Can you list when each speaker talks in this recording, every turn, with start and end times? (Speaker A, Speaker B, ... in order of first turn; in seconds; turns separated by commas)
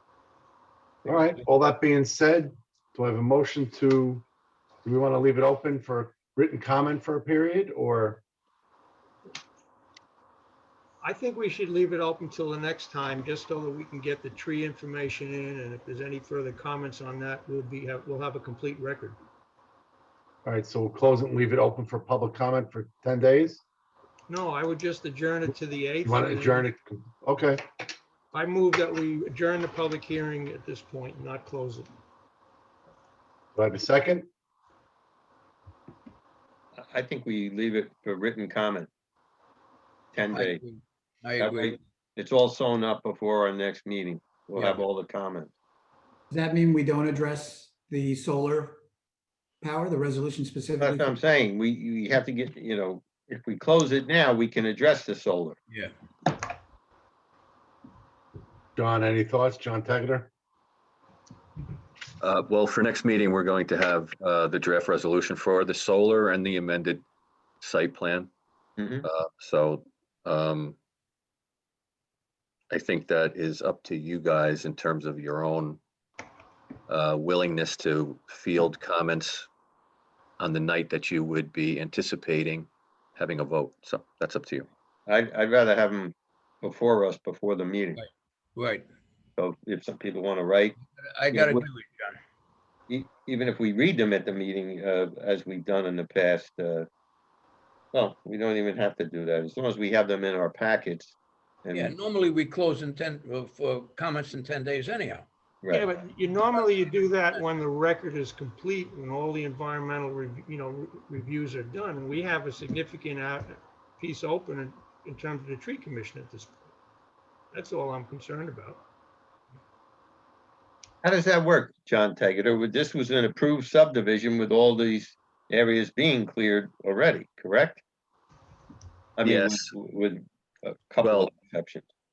Speaker A: 1.1-4.2, Speaker A: 4.8-8.2, Speaker B: 11.0-19.2, Speaker A: 20.4-23.6, Speaker B: 24.3-26.6, Speaker A: 26.0-27.6, Speaker B: 28.3-31.9, Speaker A: 33.6-34.3, Speaker C: 36.8-38.9, Speaker C: 40.1-40.6, Speaker D: 40.3-41.8, Speaker C: 41.4-45.5, Speaker D: 44.6-44.8, Speaker E: 46.3-48.8, Speaker E: 49.6-51.1, Speaker C: 50.8-55.6, Speaker A: 58.8-60.3, Speaker F: 62.2-67.0, Speaker F: 67.6-68.3, Speaker C: 68.8-69.0, Speaker F: 69.0-70.8, Speaker F: 72.7-75.8, Speaker F: 76.9-79.5, Speaker F: 80.4-84.7, Speaker C: 85.1-88.0, Speaker D: 88.0-88.9, Speaker C: 89.4-90.8, Speaker D: 90.9-92.2, Speaker C: 91.3-91.7, Speaker C: 92.9-96.9, Speaker C: 97.9-102.0, Speaker D: 101.7-105.3, Speaker C: 105.6-106.0, Speaker B: 105.7-116.5, Speaker D: 106.3-107.5, Speaker B: 117.5-118.8, Speaker C: 121.0-127.8, Speaker C: 129.2-131.9, Speaker F: 129.2-129.7, Speaker F: 131.0-131.3